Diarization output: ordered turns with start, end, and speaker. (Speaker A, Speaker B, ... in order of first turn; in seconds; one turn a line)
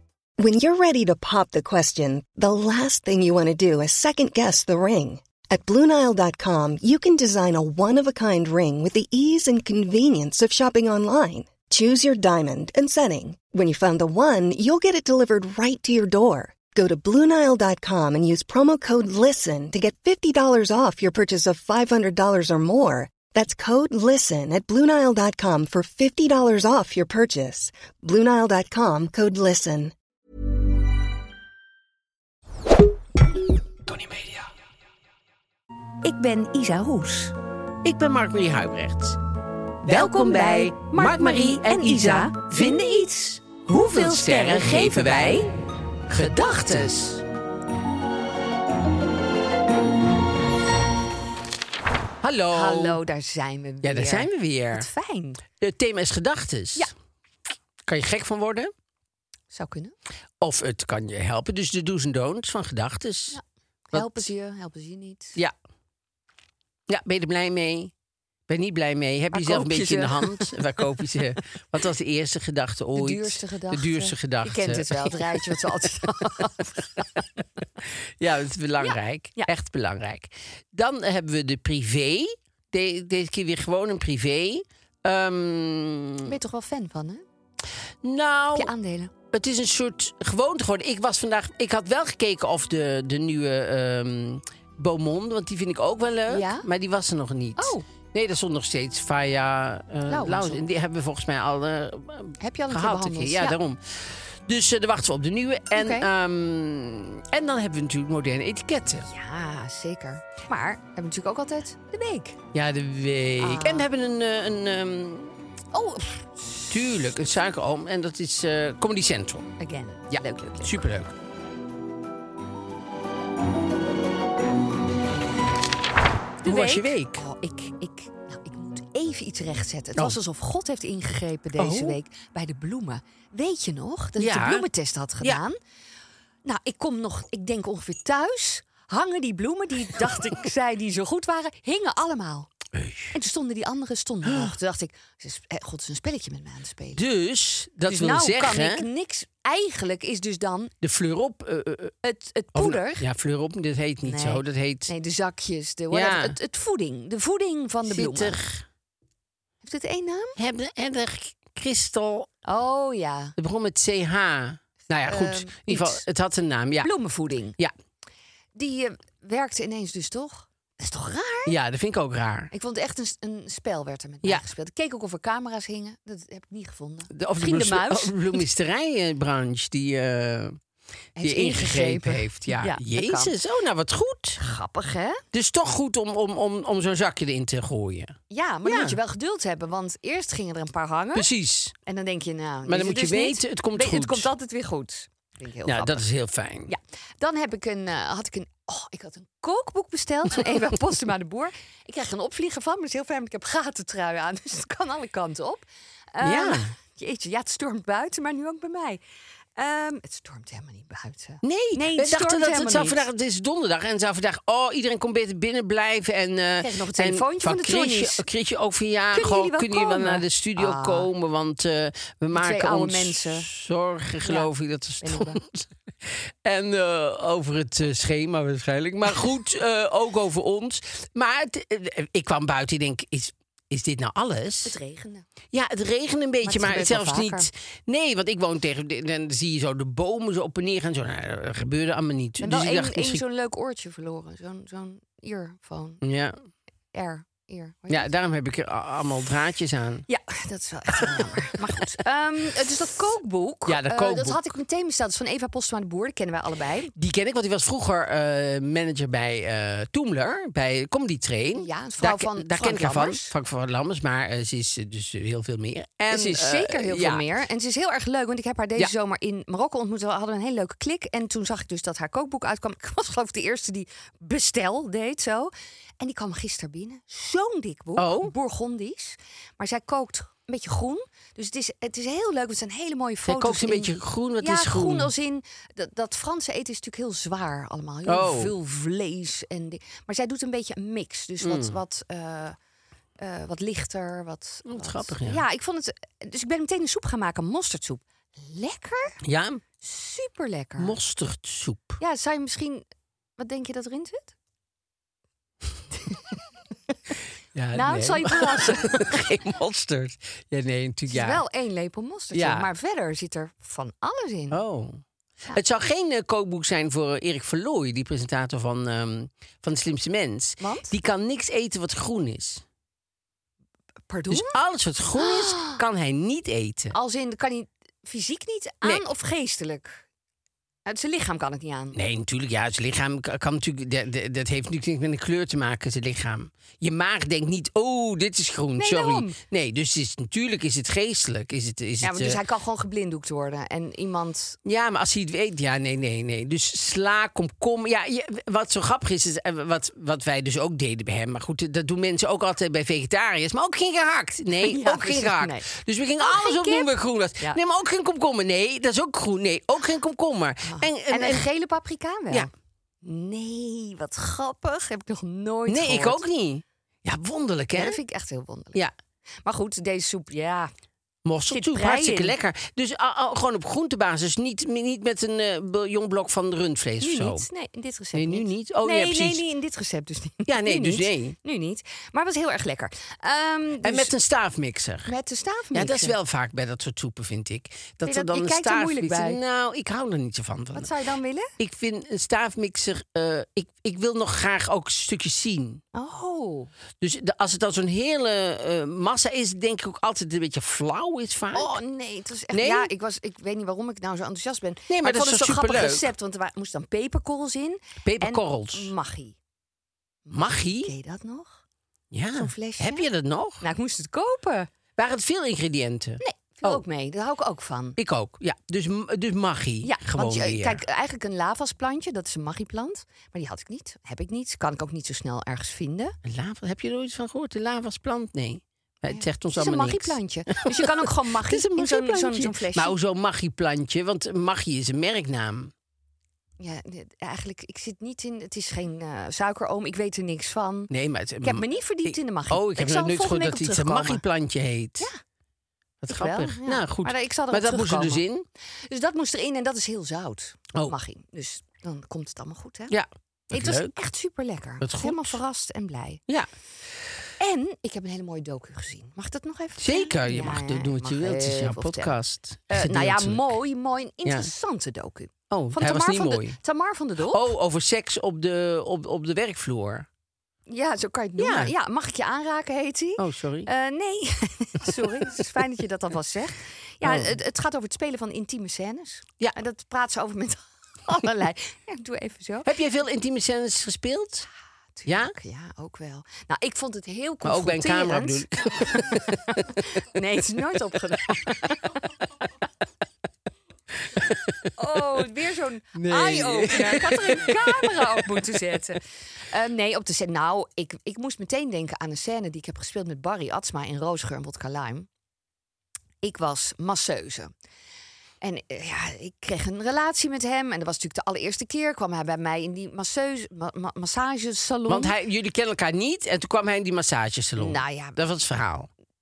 Speaker A: 0.4-29.9
Speaker B: 36.0-37.3
Speaker C: 37.8-39.2
Speaker B: 39.9-45.5
Speaker C: 39.9-43.0
Speaker C: 43.6-45.5
Speaker C: 46.1-47.1
Speaker B: 46.1-47.2
Speaker C: 52.2-53.0
Speaker B: 52.5-55.4
Speaker C: 53.8-54.9
Speaker C: 55.6-56.9
Speaker C: 57.9-58.7
Speaker B: 59.5-60.0
Speaker C: 60.4-63.4
Speaker B: 63.3-65.4
Speaker C: 63.9-64.3
Speaker C: 66.9-67.9
Speaker C: 68.5-75.5
Speaker B: 69.3-70.8
Speaker B: 73.0-77.1
Speaker C: 78.2-86.3
Speaker B: 78.8-79.5
Speaker B: 86.2-87.2
Speaker C: 88.0-88.7
Speaker B: 88.5-89.1
Speaker C: 89.3-109.1
Speaker B: 96.3-96.7
Speaker B: 97.6-97.8
Speaker B: 100.1-100.6
Speaker B: 102.4-103.6
Speaker B: 105.8-106.1
Speaker B: 109.0-112.4
Speaker C: 112.5-115.3
Speaker B: 113.4-113.9
Speaker B: 115.7-117.0
Speaker C: 116.7-119.5
Speaker B: 119.6-120.9
Speaker C: 120.1-121.1
Speaker C: 126.4-127.2
Speaker B: 126.4-135.6
Speaker C: 131.6-132.0
Speaker C: 134.2-134.7
Speaker B: 136.4-142.5
Speaker C: 142.8-143.1
Speaker B: 143.1-147.0
Speaker C: 144.2-144.6
Speaker C: 147.0-148.9
Speaker B: 147.9-150.7
Speaker C: 150.8-151.9
Speaker B: 152.0-153.1
Speaker C: 152.6-154.9
Speaker B: 154.0-158.4
Speaker C: 155.9-156.3
Speaker C: 157.9-158.6
Speaker B: 159.6-160.4
Speaker C: 160.4-162.3
Speaker B: 162.4-163.3
Speaker C: 163.4-166.9
Speaker B: 165.1-166.0
Speaker B: 166.8-167.6
Speaker B: 168.6-171.6
Speaker C: 171.5-172.5
Speaker B: 172.5-178.4
Speaker C: 177.1-180.6
Speaker B: 181.2-183.3
Speaker C: 181.2-184.4
Speaker B: 184.4-185.2
Speaker C: 185.3-189.0
Speaker B: 188.3-191.3
Speaker C: 191.2-191.7
Speaker B: 191.8-196.0
Speaker C: 192.7-194.3
Speaker C: 195.7-196.7
Speaker B: 196.7-209.0
Speaker C: 206.2-206.7
Speaker B: 209.6-213.1
Speaker C: 211.4-234.8
Speaker B: 216.6-218.2
Speaker B: 219.1-221.1
Speaker B: 222.3-223.5
Speaker B: 225.0-225.4
Speaker B: 234.7-235.3
Speaker C: 235.5-243.2
Speaker B: 236.4-237.5
Speaker B: 242.4-246.0
Speaker C: 246.0-246.4
Speaker B: 246.9-248.1
Speaker C: 247.9-250.1
Speaker B: 250.1-256.9
Speaker C: 250.9-251.7
Speaker C: 253.7-254.4
Speaker C: 256.9-267.2
Speaker B: 261.6-263.3
Speaker B: 266.1-292.6
Speaker C: 278.0-278.3
Speaker C: 283.2-285.1
Speaker C: 288.1-288.5
Speaker C: 291.4-291.8
Speaker B: 293.2-299.2
Speaker C: 294.7-295.4
Speaker C: 299.2-299.6
Speaker B: 299.8-300.9
Speaker C: 300.8-302.0
Speaker B: 302.0-302.9
Speaker B: 303.4-304.3
Speaker C: 307.5-311.4
Speaker B: 307.7-309.1
Speaker B: 311.1-314.6
Speaker C: 312.3-312.7
Speaker C: 314.5-315.0
Speaker C: 315.5-322.6
Speaker B: 320.6-320.9
Speaker B: 324.1-324.6
Speaker C: 324.3-327.0
Speaker B: 325.2-325.8
Speaker B: 326.9-330.1
Speaker B: 330.9-332.0
Speaker C: 331.9-342.4
Speaker B: 338.8-339.4
Speaker B: 342.0-344.6
Speaker C: 344.6-361.4
Speaker B: 354.6-355.7
Speaker B: 356.2-357.6
Speaker B: 360.7-362.5
Speaker B: 363.0-366.2
Speaker C: 365.7-368.0
Speaker B: 367.7-368.8
Speaker B: 369.4-370.7
Speaker C: 371.2-377.4
Speaker B: 371.5-372.4
Speaker B: 377.0-384.1
Speaker C: 378.1-379.4
Speaker C: 380.5-381.4
Speaker C: 383.8-385.1
Speaker B: 385.1-386.1
Speaker C: 385.7-390.9
Speaker B: 388.1-389.4
Speaker B: 390.8-391.5
Speaker C: 391.6-395.8
Speaker B: 395.9-396.7
Speaker C: 397.0-401.8
Speaker B: 401.5-409.4
Speaker C: 402.5-402.9
Speaker C: 404.9-406.1
Speaker C: 408.1-408.9
Speaker B: 410.3-411.6
Speaker C: 410.3-410.9
Speaker C: 412.1-413.6
Speaker B: 412.4-413.1
Speaker B: 413.6-414.7
Speaker C: 415.0-416.8
Speaker B: 416.2-418.0
Speaker C: 418.0-420.8
Speaker B: 419.8-426.1
Speaker C: 426.2-435.7
Speaker B: 429.1-433.0
Speaker B: 436.6-440.9
Speaker C: 440.9-445.1
Speaker B: 441.4-444.2
Speaker C: 446.0-448.4
Speaker B: 446.1-448.2
Speaker B: 448.9-452.9
Speaker C: 452.9-453.9
Speaker B: 453.5-456.2
Speaker C: 454.8-455.4
Speaker B: 457.4-462.1
Speaker C: 459.8-463.5
Speaker B: 462.7-467.5
Speaker C: 464.2-464.5
Speaker C: 465.5-466.6
Speaker C: 467.3-470.1
Speaker B: 470.7-482.7
Speaker C: 471.4-471.7
Speaker C: 473.2-473.7
Speaker C: 477.0-477.4
Speaker C: 482.6-484.5
Speaker B: 485.0-492.0
Speaker C: 485.1-485.3
Speaker C: 487.4-489.6
Speaker C: 494.1-494.7
Speaker B: 494.8-505.1
Speaker C: 496.0-498.4
Speaker B: 506.2-507.5
Speaker B: 508.4-515.1
Speaker C: 514.9-518.9
Speaker B: 517.6-518.2